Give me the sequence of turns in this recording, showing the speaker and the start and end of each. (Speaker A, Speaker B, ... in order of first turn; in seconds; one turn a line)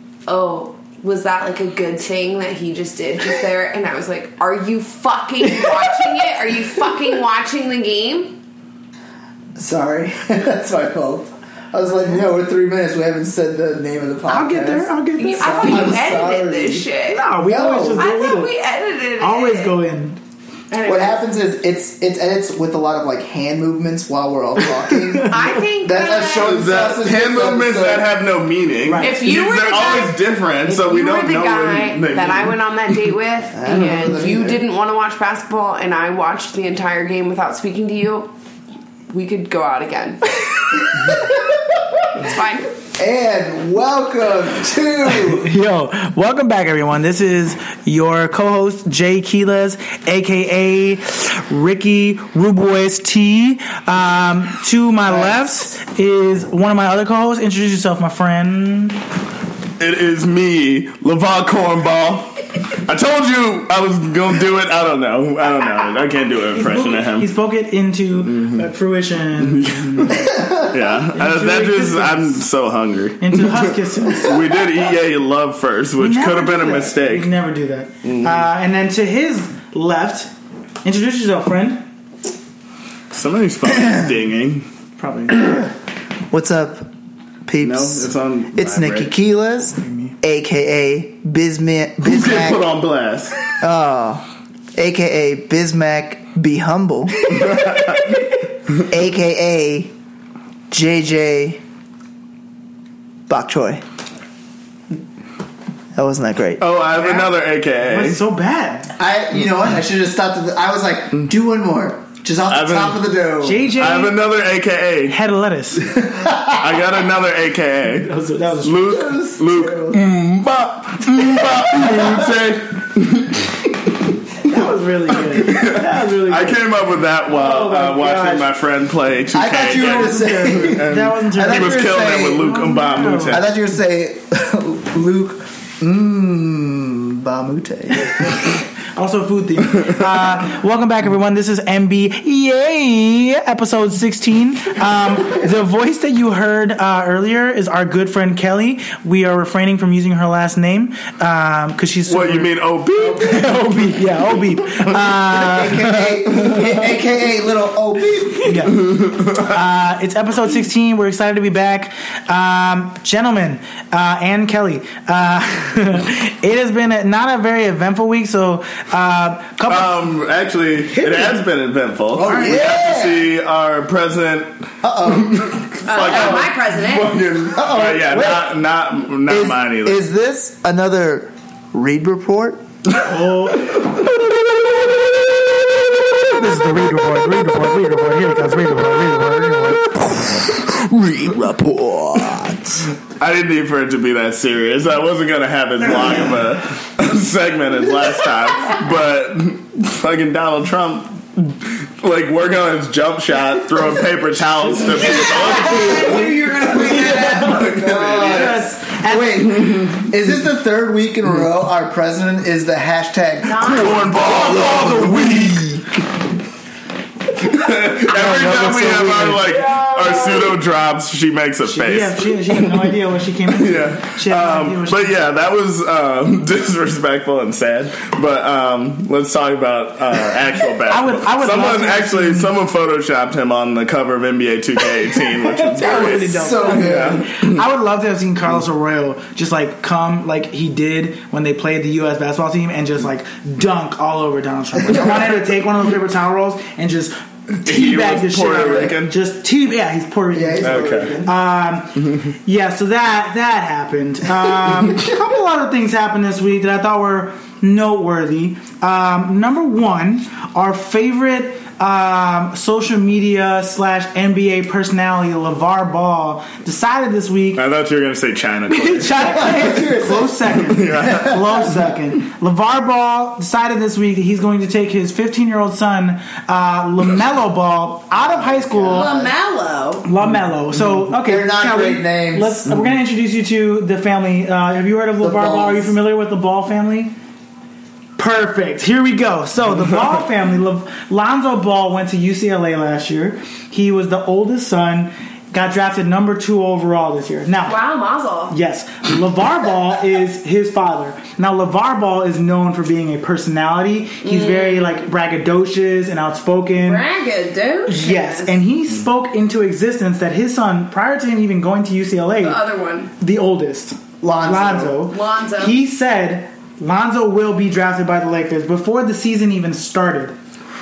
Speaker A: 0.3-8.3
Speaker B: 9.6-18.1
Speaker C: 14.3-16.0
Speaker A: 15.2-17.2
Speaker C: 17.1-18.5
Speaker A: 17.9-19.7
Speaker C: 19.2-20.2
Speaker A: 20.7-21.2
Speaker B: 20.8-28.1
Speaker C: 24.7-25.4
Speaker A: 25.3-26.7
Speaker D: 26.3-32.6
Speaker C: 28.8-29.2
Speaker A: 29.0-38.3
Speaker B: 33.5-34.6
Speaker A: 39.1-40.3
Speaker A: 42.1-42.7
Speaker B: 43.0-45.5
Speaker C: 45.2-59.0
Speaker B: 55.0-55.4
Speaker D: 59.8-67.3
Speaker C: 66.5-70.4
Speaker D: 68.1-68.7
Speaker D: 69.4-77.3
Speaker B: 70.3-70.6
Speaker C: 71.1-72.4
Speaker C: 73.2-74.5
Speaker C: 76.0-80.3
Speaker D: 78.0-78.5
Speaker C: 80.8-81.8
Speaker D: 83.1-84.7
Speaker C: 85.0-85.7
Speaker B: 86.3-86.9
Speaker B: 87.5-92.6
Speaker D: 87.6-89.1
Speaker C: 89.8-90.1
Speaker D: 92.0-93.4
Speaker B: 93.6-97.7
Speaker D: 97.3-98.2
Speaker B: 98.8-99.9
Speaker B: 100.7-101.6
Speaker B: 103.3-103.8
Speaker B: 105.9-106.6
Speaker D: 106.6-108.2
Speaker C: 106.9-107.3
Speaker C: 107.8-108.9
Speaker B: 109.0-113.7
Speaker D: 112.5-113.0
Speaker C: 113.4-114.2
Speaker D: 113.7-115.2
Speaker C: 115.1-116.0
Speaker B: 116.1-116.5
Speaker D: 116.3-118.1
Speaker C: 118.0-118.9
Speaker D: 118.6-123.6
Speaker B: 118.8-120.0
Speaker B: 121.8-122.2
Speaker C: 124.4-126.6
Speaker D: 125.3-133.5
Speaker C: 127.3-128.5
Speaker B: 129.3-132.5
Speaker C: 129.7-133.4
Speaker B: 133.2-138.3
Speaker C: 138.9-152.5
Speaker D: 152.1-154.9
Speaker C: 153.2-156.7
Speaker B: 155.2-158.7
Speaker C: 158.4-169.9
Speaker D: 158.9-159.5
Speaker D: 169.7-180.0
Speaker C: 170.9-171.3
Speaker B: 172.1-173.3
Speaker C: 172.3-172.6
Speaker B: 174.8-176.5
Speaker A: 175.8-177.1
Speaker B: 177.5-178.6
Speaker B: 179.2-182.6
Speaker C: 183.0-183.8
Speaker C: 186.3-190.0
Speaker B: 190.2-192.9
Speaker D: 193.0-208.7
Speaker A: 204.9-207.7
Speaker B: 204.9-215.0
Speaker C: 208.0-209.6
Speaker D: 209.6-210.0
Speaker A: 213.4-214.1
Speaker D: 213.5-215.8
Speaker C: 214.1-215.8
Speaker D: 217.4-222.9
Speaker C: 218.1-219.6
Speaker C: 221.6-225.2
Speaker D: 223.5-237.6
Speaker C: 230.9-232.5
Speaker C: 235.2-267.6
Speaker B: 235.8-237.2
Speaker D: 247.6-249.1
Speaker B: 250.3-251.4
Speaker D: 250.6-251.1
Speaker D: 267.5-269.5
Speaker C: 268.7-279.1
Speaker B: 269.2-271.6
Speaker D: 270.7-271.7
Speaker B: 278.3-279.3
Speaker A: 278.9-280.1
Speaker C: 280.0-287.1
Speaker B: 281.2-282.7
Speaker B: 285.2-285.9
Speaker C: 288.2-297.8
Speaker A: 297.6-298.5
Speaker C: 298.5-307.0
Speaker A: 304.2-304.9
Speaker A: 306.8-308.6
Speaker C: 307.9-312.6
Speaker A: 312.4-313.1
Speaker C: 313.2-320.4
Speaker B: 314.2-315.0
Speaker A: 315.1-315.8